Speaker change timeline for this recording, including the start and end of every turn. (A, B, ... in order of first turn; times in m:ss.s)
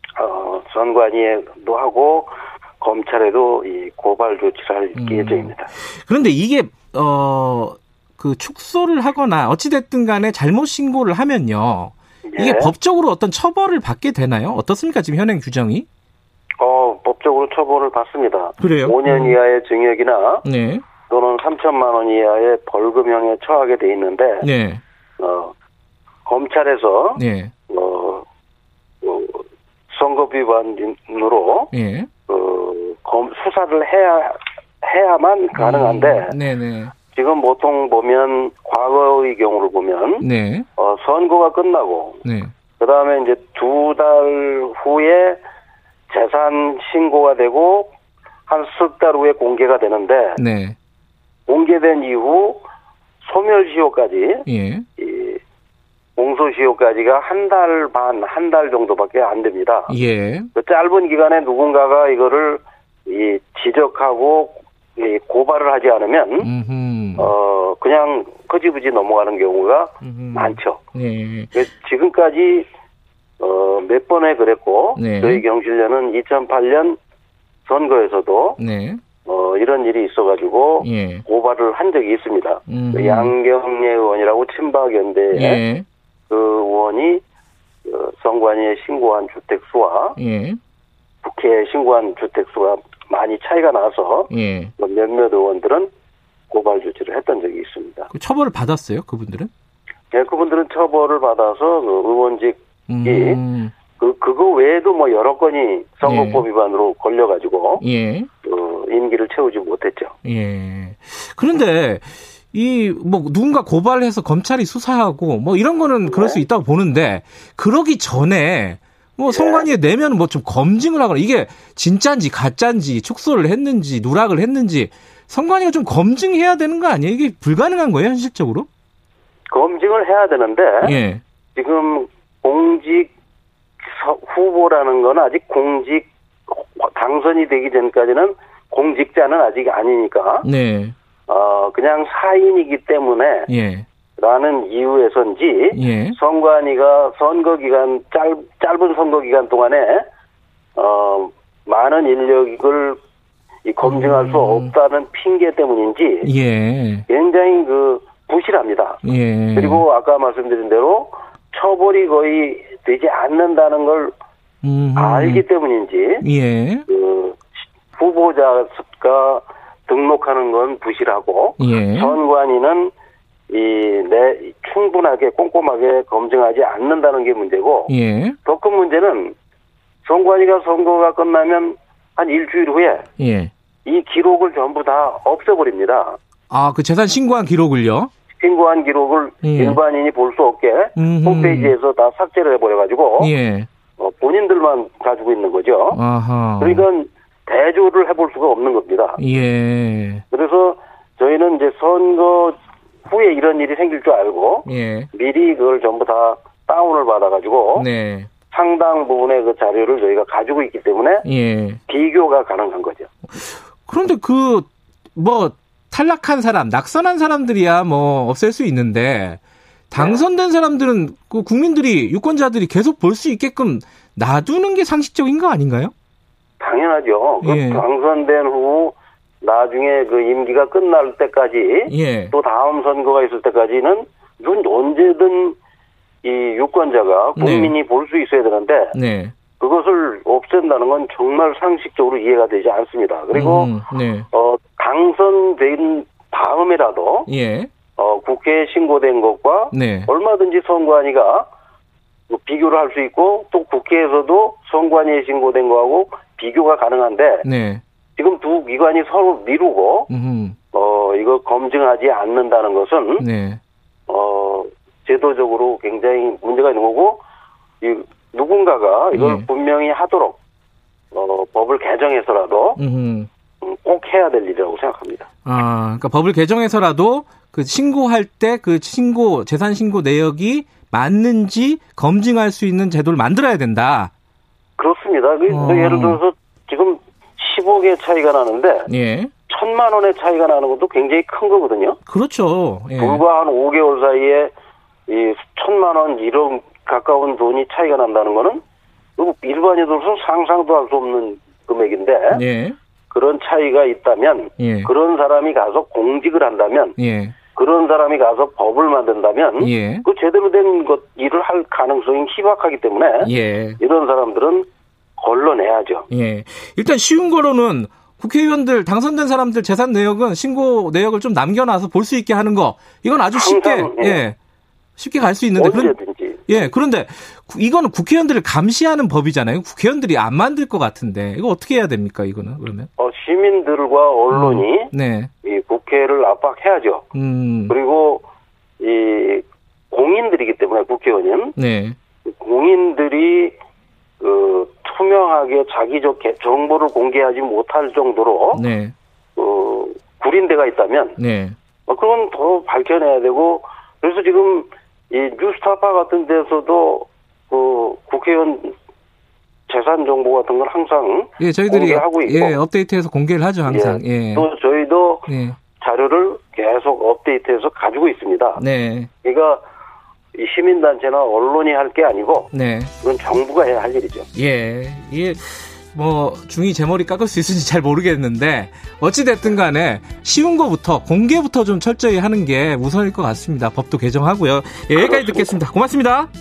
0:00.2-0:05.7 A
0:05.0-0:15.8 B
0:12.3-0:12.7 A
0:16.6-0:20.4 A
0:18.6-0:19.4 B
0:20.4-0:20.8 B
0:21.1-0:24.5 A
0:24.4-0:24.8 B
0:25.2-0:25.5 A
0:26.2-0:28.2 A
0:27.2-0:27.5 B
0:29.0-0:31.7 A
0:31.7-0:32.1 B
0:32.3-0:36.4 A
0:35.5-0:36.9 B
0:37.1-0:40.2 A
0:40.2-0:40.7 B
0:40.8-0:42.2 A
0:42.2-0:42.5 B
0:42.8-0:45.4 A
0:46.1-0:47.9 A
0:48.5-0:50.4 A
0:50.4-0:50.8 B
0:51.5-0:52.6 A
0:53.2-0:54.4 A
0:54.4-0:54.8 B
0:55.0-0:55.4 A
0:56.2-0:59.9 A
0:59.9-1:00.5 B
1:00.5-1:06.5 A
1:06.4-1:07.3 B
1:07.2-1:10.8 A
1:10.0-1:11.5 B
1:11.5-1:12.7 A
1:13.4-1:17.0 A
1:15.0-1:15.4 B
1:17.6-1:18.6 A
1:18.6-1:19.0 B
1:19.2-1:25.6 A
1:20.8-1:21.2 B
1:22.7-1:23.3 B
1:25.3-1:25.8 B
1:26.3-1:27.2 A
1:27.8-1:30.2 A
1:30.2-1:30.6 B
1:31.2-1:35.9 A
1:34.3-1:34.7 B
1:36.5-1:38.1 A
1:38.1-1:39.5 B
1:40.1-1:43.4 A
1:42.9-1:43.7 B
1:44.0-1:47.8 A
1:46.0-1:46.4 B
1:47.8-1:48.3 B
1:48.4-1:50.1 A
1:50.2-2:08.7 B
1:56.0-1:56.4 A
1:59.3-1:59.7 A
2:09.5-2:10.9 A
2:10.8-2:11.2 B
2:11.5-2:13.1 A
2:13.8-2:20.5 A
2:20.4-2:20.9 B
2:21.3-2:23.5 A
2:23.5-2:23.8 B
2:24.2-2:30.0 A
2:25.7-2:26.2 B
2:30.8-2:33.0 A
2:33.6-2:36.3 A
2:33.8-2:34.7 B
2:36.2-2:37.0 B
2:37.1-2:39.0 A
2:39.0-2:39.8 B
2:39.5-2:44.1 A
2:44.6-2:45.4 B
2:45.0-2:46.2 A
2:46.2-2:46.8 B
2:46.9-2:52.9 A
2:51.6-2:52.2 B
2:53.5-2:57.9 A
2:57.9-2:58.4 B
2:58.4-2:59.3 A
3:00.0-3:03.1 A
3:03.2-3:03.5 B
3:03.8-3:06.2 A
3:06.5-3:08.1 B
3:08.3-3:13.3 A
3:09.4-3:09.8 B
3:11.0-3:11.8 B
3:13.2-3:13.7 B
3:14.0-3:16.0 A
3:15.9-3:16.8 B
3:16.6-3:19.2 A
3:19.2-3:20.2 B
3:20.3-3:27.9 A
3:24.6-3:25.1 B
3:27.7-3:28.3 B
3:28.5-3:31.2 A
3:31.2-3:31.8 B
3:31.9-3:33.1 A
3:33.4-3:39.4 B
3:39.9-3:45.9 B
3:39.9-3:40.2 A
3:46.6-3:55.6 A
3:47.4-3:47.8 B
3:51.9-3:52.3 B
3:56.2-3:58.9 A
3:57.4-3:57.7 B
3:58.9-3:59.3 B
3:59.6-4:07.3 A
4:03.3-4:04.3 B
4:07.3-4:07.7 B
4:08.0-4:11.5 A
4:09.7-4:10.1 B
4:12.3-4:17.4 A
4:17.4-4:17.8 B
4:18.2-4:20.1 A
4:20.1-4:20.6 B
4:20.7-4:23.2 A
4:23.2-4:23.6 B
4:24.1-4:27.2 A
4:27.8-4:30.4 A
4:29.1-4:29.5 B
4:31.1-4:32.8 A
4:32.8-4:33.3 B
4:33.6-4:35.3 A
4:35.4-4:44.1 B
4:44.8-4:48.9 A
4:45.5-4:46.2 B
4:48.9-4:49.3 B
4:49.5-4:52.0 A
4:52.1-4:53.2 B
4:53.0-4:54.5 A
4:55.1-4:58.6 A
4:59.2-5:02.4 A
5:02.3-5:02.8 B
5:03.1-5:07.0 A
5:04.6-5:04.9 B
5:07.0-5:07.3 B
5:07.5-5:16.1 A
5:09.6-5:10.0 B
5:13.2-5:13.8 B
5:16.1-5:24.4 B
5:23.3-5:24.2 A
5:25.0-5:26.0 B
5:25.6-5:26.6 A
5:26.5-5:32.9 B
5:33.0-5:34.9 A
5:34.3-5:35.3 B
5:35.4-5:37.0 A
5:37.1-5:37.8 B
5:37.7-5:38.2 A
5:38.8-5:41.5 A
5:41.6-5:42.0 B
5:42.2-5:43.5 A
5:44.2-5:48.6 A
5:48.5-5:48.9 B
5:49.4-5:51.2 A
5:51.2-5:51.6 B
5:51.8-5:58.7 A
5:59.7-6:02.6 A
6:01.4-6:04.5 B
6:03.7-6:08.6 A
6:05.3-6:05.6 B
6:08.6-6:09.1 B
6:09.2-6:09.6 A
6:10.3-6:14.3 A
6:12.5-6:12.9 B
6:14.3-6:26.3 B
6:24.9-6:25.6 A